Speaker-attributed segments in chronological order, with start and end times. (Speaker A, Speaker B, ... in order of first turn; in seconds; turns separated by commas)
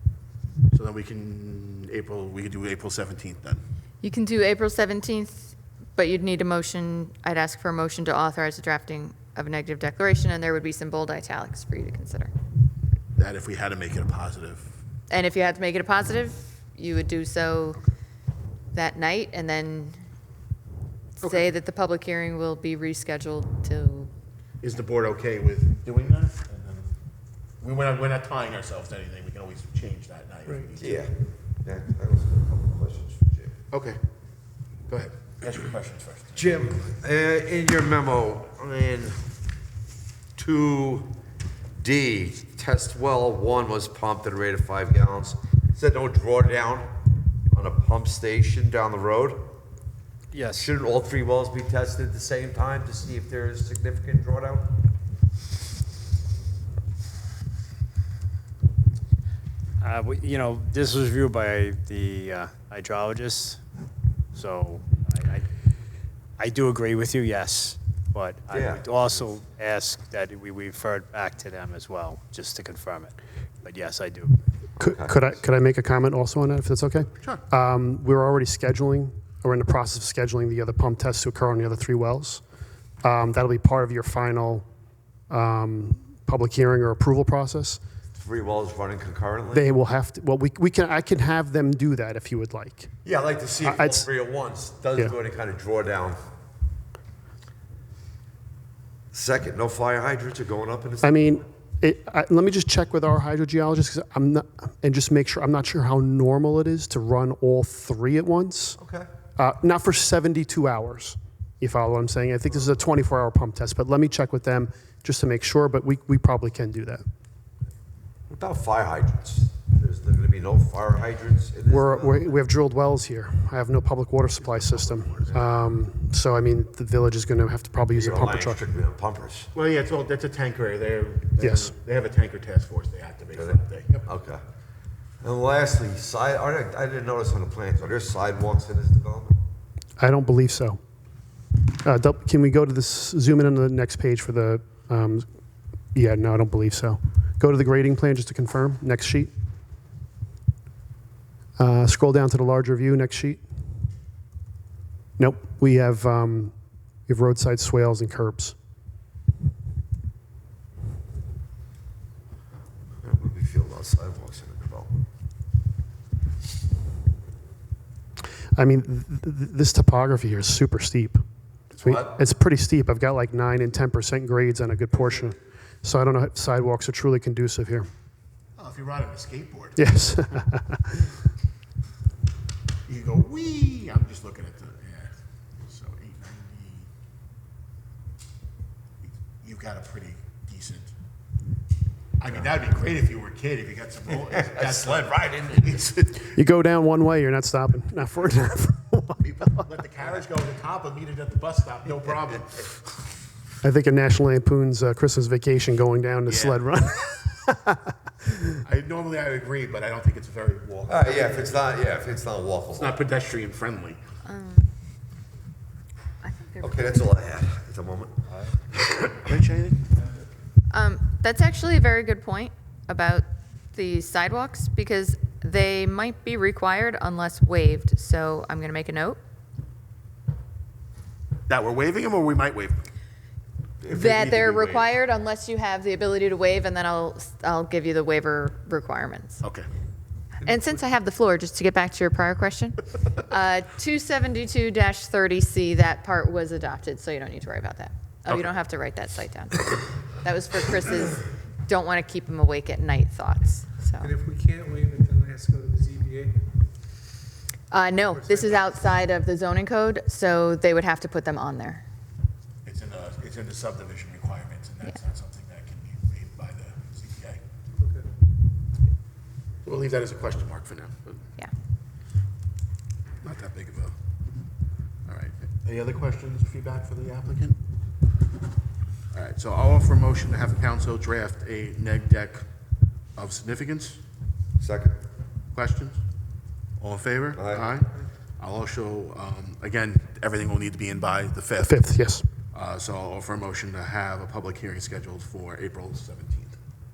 Speaker A: 0.7-3.6, Speaker B: 4.0-12.3, Speaker A: 13.2-14.7, Speaker B: 15.1-17.8, Speaker B: 18.7-20.0, Speaker B: 21.2-24.1, Speaker A: 24.6-26.9, Speaker A: 27.6-31.0, Speaker C: 30.8-33.5, Speaker A: 33.7-34.0, Speaker A: 34.9-36.5, Speaker C: 36.4-39.3, Speaker C: 40.4-41.1, Speaker C: 41.8-46.9, Speaker C: 47.5-49.5, Speaker D: 50.3-50.8, Speaker C: 50.5-54.7, Speaker D: 59.8-63.6, Speaker D: 64.3-65.5, Speaker D: 66.4-74.4, Speaker C: 68.5-69.3, Speaker C: 74.8-75.2, Speaker E: 74.8-82.4, Speaker E: 83.0-84.7, Speaker E: 85.3-87.8, Speaker C: 88.2-89.7, Speaker E: 89.5-92.9, Speaker C: 93.0-96.2, Speaker E: 93.7-94.0, Speaker C: 99.1-101.4, Speaker E: 101.0-108.8, Speaker C: 108.8-109.1, Speaker E: 109.4-117.0, Speaker C: 118.3-122.4, Speaker E: 121.7-128.7, Speaker A: 124.4-125.4, Speaker C: 127.9-129.5, Speaker A: 129.5-134.1, Speaker E: 131.4-131.7, Speaker C: 133.3-134.4, Speaker C: 135.2-139.4, Speaker E: 140.0-140.8, Speaker E: 141.8-145.2, Speaker E: 145.9-149.3, Speaker E: 151.6-153.4, Speaker E: 155.2-156.5, Speaker E: 157.1-158.5, Speaker C: 163.0-164.9, Speaker E: 168.6-171.2, Speaker C: 171.8-172.1, Speaker E: 171.8-177.9, Speaker A: 178.6-179.8, Speaker E: 179.8-181.1, Speaker A: 182.8-186.9, Speaker A: 189.0-190.9, Speaker A: 192.2-196.3, Speaker C: 194.1-195.7, Speaker E: 196.3-199.2, Speaker A: 199.2-202.8, Speaker E: 203.6-207.8, Speaker A: 206.3-206.6, Speaker A: 208.7-211.6, Speaker C: 210.9-213.0, Speaker A: 212.7-214.0, Speaker B: 214.2-214.7, Speaker B: 216.2-217.1, Speaker C: 216.6-218.1, Speaker A: 219.2-219.9, Speaker B: 220.7-229.2, Speaker A: 231.5-232.9, Speaker B: 233.9-239.4, Speaker A: 234.0-234.5, Speaker A: 239.4-239.7, Speaker B: 240.4-254.1, Speaker F: 254.0-256.4, Speaker B: 257.7-261.8, Speaker F: 258.0-258.8, Speaker A: 262.6-267.4, Speaker F: 267.8-268.1, Speaker A: 269.6-271.2, Speaker A: 273.2-274.0, Speaker A: 275.1-277.6, Speaker A: 279.1-282.4, Speaker A: 283.2-284.0, Speaker C: 284.6-285.0, Speaker A: 285.5-286.0, Speaker A: 286.8-291.7, Speaker C: 287.4-287.7, Speaker E: 291.7-292.2, Speaker A: 292.5-296.6